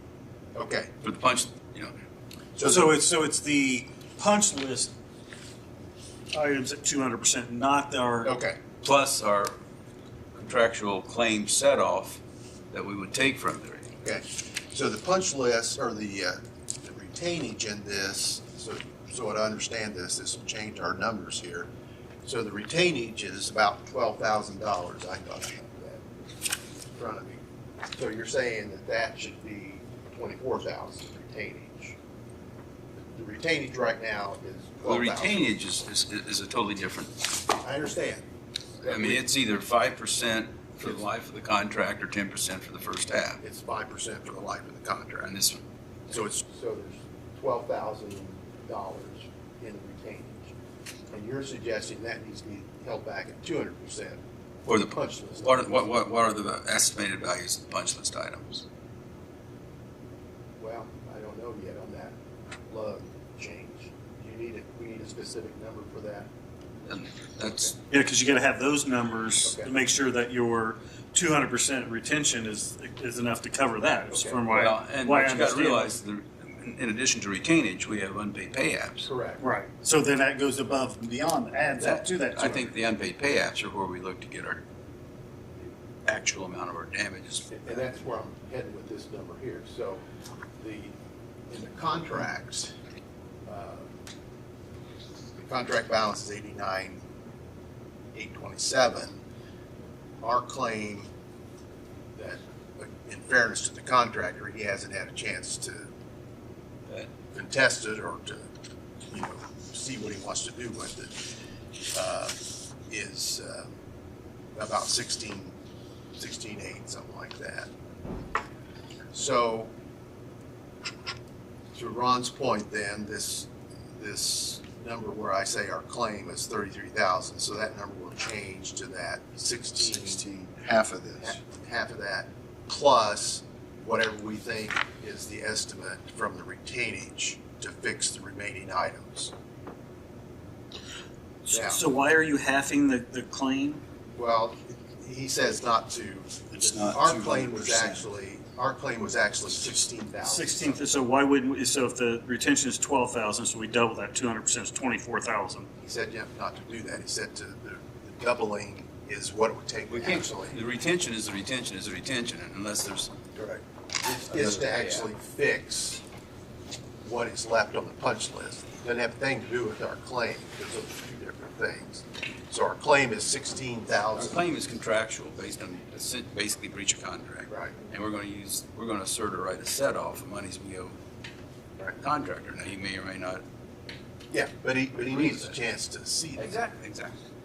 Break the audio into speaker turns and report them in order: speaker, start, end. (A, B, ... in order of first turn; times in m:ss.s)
0:00.5-0:00.9 A
0:01.0-0:01.9 B
0:02.6-0:03.0 A
0:02.6-0:04.9 C
0:06.3-0:08.3 C
0:08.2-0:08.6 A
0:08.8-0:09.6 B
0:10.4-0:12.2 B
0:12.7-0:13.9 B
0:14.0-0:21.7 A
0:22.2-0:26.0 A
0:26.9-0:27.4 A
0:27.9-0:32.0 A
0:33.1-0:35.7 A
0:34.8-0:37.2 B
0:37.6-0:38.3 A
0:38.8-0:39.2 A
0:38.9-0:43.4 B
0:43.4-0:45.3 A
0:45.2-0:45.6 B
0:46.1-0:50.6 A
0:51.1-0:54.2 A
0:54.7-0:58.6 B
0:54.8-0:56.0 A
1:00.6-1:02.2 A
1:02.7-1:06.3 A
1:06.8-1:07.8 B
1:07.4-1:07.8 A
1:07.9-1:16.0 C
1:09.4-1:09.7 A
1:14.1-1:14.4 A
1:14.5-1:19.1 B
1:19.1-1:19.4 A
1:19.4-1:22.7 C
1:21.8-1:24.6 B
1:26.0-1:27.5 B
1:27.5-1:30.0 A
1:30.6-1:31.0 A
1:31.5-1:32.7 A
1:33.5-1:33.9 A
1:35.4-1:37.0 A
1:38.1-1:39.2 A
1:40.2-1:41.1 A
1:42.2-1:45.9 A
1:47.3-1:48.5 A
1:49.1-1:51.3 A
1:51.9-1:52.4 A
1:52.9-1:53.7 A
1:54.6-1:55.6 A
1:56.2-1:57.7 A
1:59.1-1:59.7 A
2:01.7-2:10.2 A
2:09.8-2:11.4 D
2:11.2-2:19.3 A
2:21.4-2:23.8 C
2:21.5-2:21.8 A
2:24.2-2:30.8 A
2:26.5-2:28.1 D
2:30.2-2:35.7 C
2:35.8-2:40.6 A
2:39.9-2:43.1 B
2:43.4-2:46.0 A
2:44.3-2:45.1 B
2:47.0-2:54.4 A
2:54.1-3:01.0 B
2:57.5-2:57.8 A
3:01.9-3:03.4 B
3:04.3-3:06.5 A
3:05.1-3:05.6 B
3:06.4-3:07.2 B